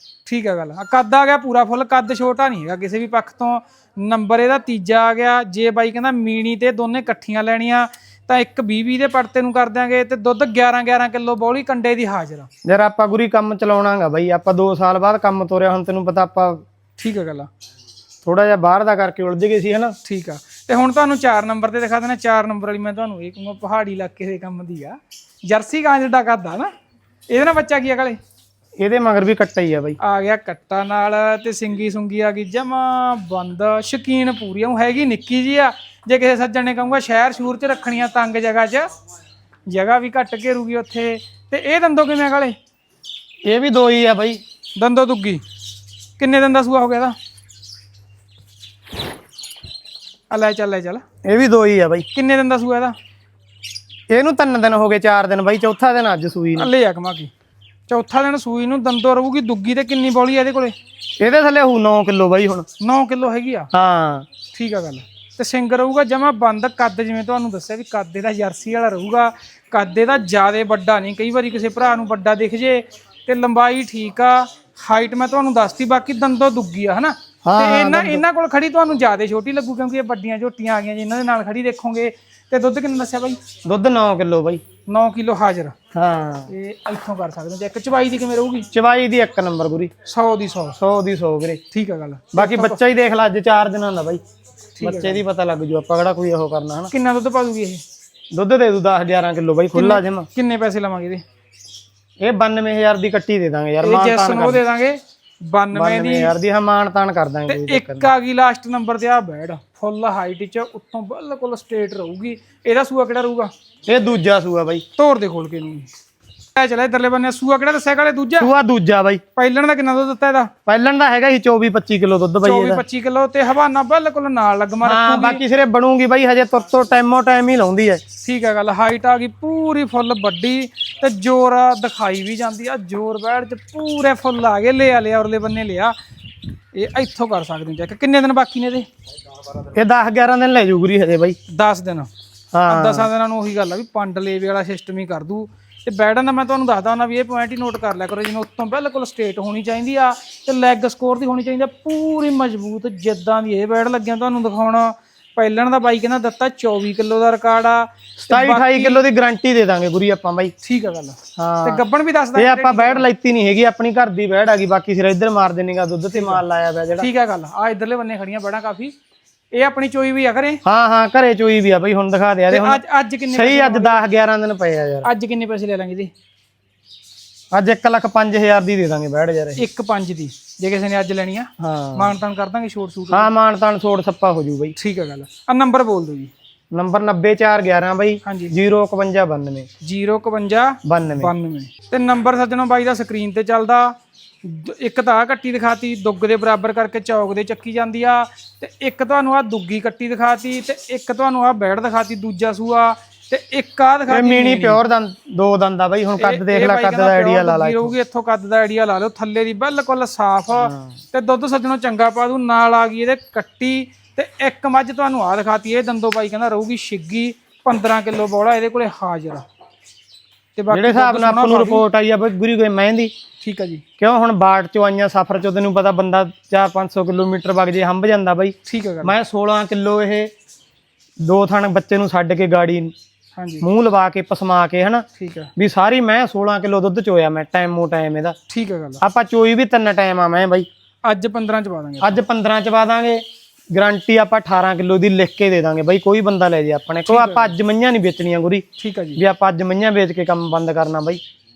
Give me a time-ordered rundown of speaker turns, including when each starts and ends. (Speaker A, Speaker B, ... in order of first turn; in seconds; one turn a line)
Speaker A: 0.2-12.5
Speaker B: 12.7-16.6
Speaker A: 17.0-17.5
Speaker B: 18.2-20.0
Speaker A: 20.1-26.7
Speaker A: 27.3-28.2
Speaker B: 28.8-30.0
Speaker A: 30.0-38.9
Speaker A: 39.7-42.6
Speaker B: 43.4-44.4
Speaker A: 44.8-45.4
Speaker A: 46.2-47.1
Speaker A: 50.3-51.0
Speaker B: 51.2-52.1
Speaker A: 52.1-53.0
Speaker B: 54.1-56.7
Speaker A: 56.6-57.3
Speaker A: 57.9-60.7
Speaker B: 61.2-62.7
Speaker A: 62.8-63.7
Speaker B: 63.7-64.3
Speaker A: 64.5-83.4
Speaker B: 77.4-78.2
Speaker B: 83.7-84.6
Speaker A: 84.9-85.8
Speaker B: 85.9-86.5
Speaker A: 86.5-88.7
Speaker B: 88.7-89.9
Speaker A: 90.1-90.8
Speaker B: 90.8-91.6
Speaker A: 91.7-92.8
Speaker B: 92.3-94.2
Speaker A: 94.8-95.2
Speaker B: 94.8-96.9
Speaker A: 96.9-97.8
Speaker B: 98.3-100.3
Speaker A: 99.7-101.2
Speaker B: 102.2-104.6
Speaker A: 103.8-106.3
Speaker B: 105.7-108.1
Speaker A: 107.5-113.5
Speaker B: 113.9-114.8
Speaker A: 115.0-115.9
Speaker A: 116.5-118.5
Speaker B: 118.4-119.2
Speaker A: 119.4-120.5
Speaker B: 120.7-122.8
Speaker A: 122.4-125.4
Speaker B: 124.8-128.0
Speaker A: 128.2-135.9
Speaker A: 136.7-138.9
Speaker B: 139.7-141.4
Speaker A: 141.5-142.1
Speaker B: 142.5-143.1
Speaker A: 142.7-159.0
Speaker B: 158.2-160.5
Speaker A: 160.6-163.1
Speaker B: 161.4-161.8
Speaker B: 162.3-167.1
Speaker A: 166.1-166.4
Speaker A: 167.0-168.9
Speaker A: 169.5-170.6
Speaker B: 170.7-175.1
Speaker A: 172.5-174.0
Speaker A: 175.0-176.1
Speaker B: 177.5-179.6
Speaker A: 179.6-183.3
Speaker B: 181.6-182.1
Speaker B: 183.1-184.8
Speaker A: 184.8-186.3
Speaker B: 186.7-189.7
Speaker A: 188.2-188.5
Speaker A: 189.8-204.8
Speaker B: 190.8-191.3
Speaker B: 204.1-207.9
Speaker A: 206.2-219.4
Speaker B: 210.6-211.0
Speaker A: 220.6-221.8
Speaker B: 220.7-223.1
Speaker A: 223.4-223.8
Speaker B: 224.0-230.3
Speaker A: 228.7-229.2
Speaker B: 231.2-232.9
Speaker A: 233.4-233.7
Speaker B: 233.6-235.1
Speaker A: 235.2-235.5
Speaker B: 235.6-238.4
Speaker A: 238.5-239.0
Speaker B: 239.0-240.7
Speaker A: 241.1-242.2
Speaker B: 242.0-248.7
Speaker A: 247.1-247.5
Speaker A: 248.8-249.2
Speaker B: 249.2-251.2